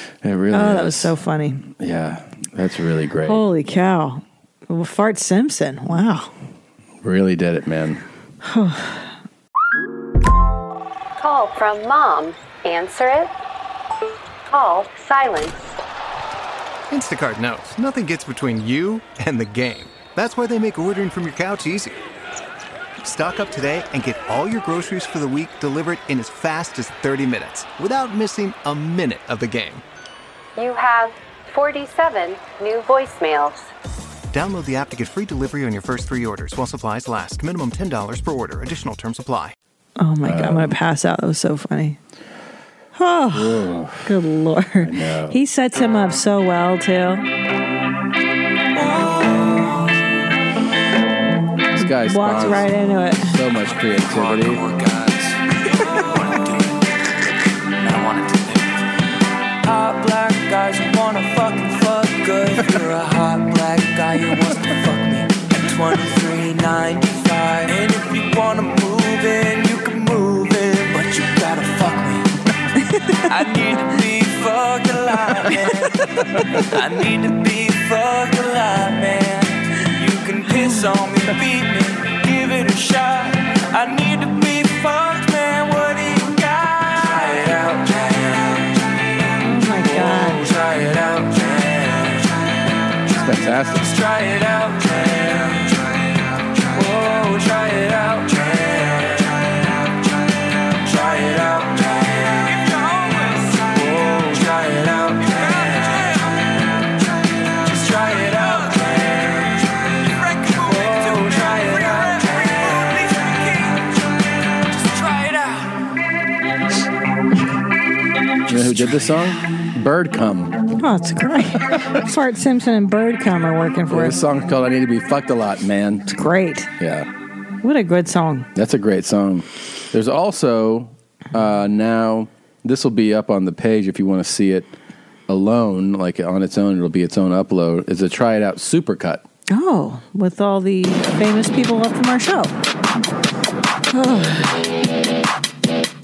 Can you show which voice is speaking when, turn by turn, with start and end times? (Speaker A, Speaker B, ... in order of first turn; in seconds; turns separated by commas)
Speaker A: 0.2-3.4, Speaker B: 0.5-1.6, Speaker B: 3.3-6.3, Speaker A: 7.0-8.0, Speaker B: 8.4-9.1, Speaker C: 11.2-13.3, Speaker C: 14.5-15.6, Speaker D: 16.9-22.0, Speaker D: 23.0-29.8, Speaker C: 30.6-33.6, Speaker D: 34.3-39.5, Speaker B: 40.0-42.0, Speaker A: 40.2-40.7, Speaker B: 43.0-47.2, Speaker A: 43.3-44.1, Speaker A: 44.8-45.4, Speaker A: 51.8-54.6, Speaker B: 51.8-53.4, Speaker E: 55.9-56.4, Speaker E: 59.6-72.3, Speaker E: 73.3-75.9, Speaker E: 76.6-88.8, Speaker B: 89.4-90.4, Speaker E: 89.8-92.4, Speaker A: 93.1-93.9, Speaker E: 93.8-96.0, Speaker E: 96.7-99.8, Speaker E: 100.8-106.3, Speaker E: 107.6-113.9, Speaker E: 114.7-115.7, Speaker A: 118.5-120.6, Speaker B: 120.8-124.2, Speaker A: 123.9-126.1, Speaker B: 126.1-126.7, Speaker A: 126.8-127.1, Speaker B: 127.6-128.5, Speaker A: 128.5-134.7, Speaker A: 135.3-139.2, Speaker B: 139.5-142.5, Speaker B: 143.9-144.4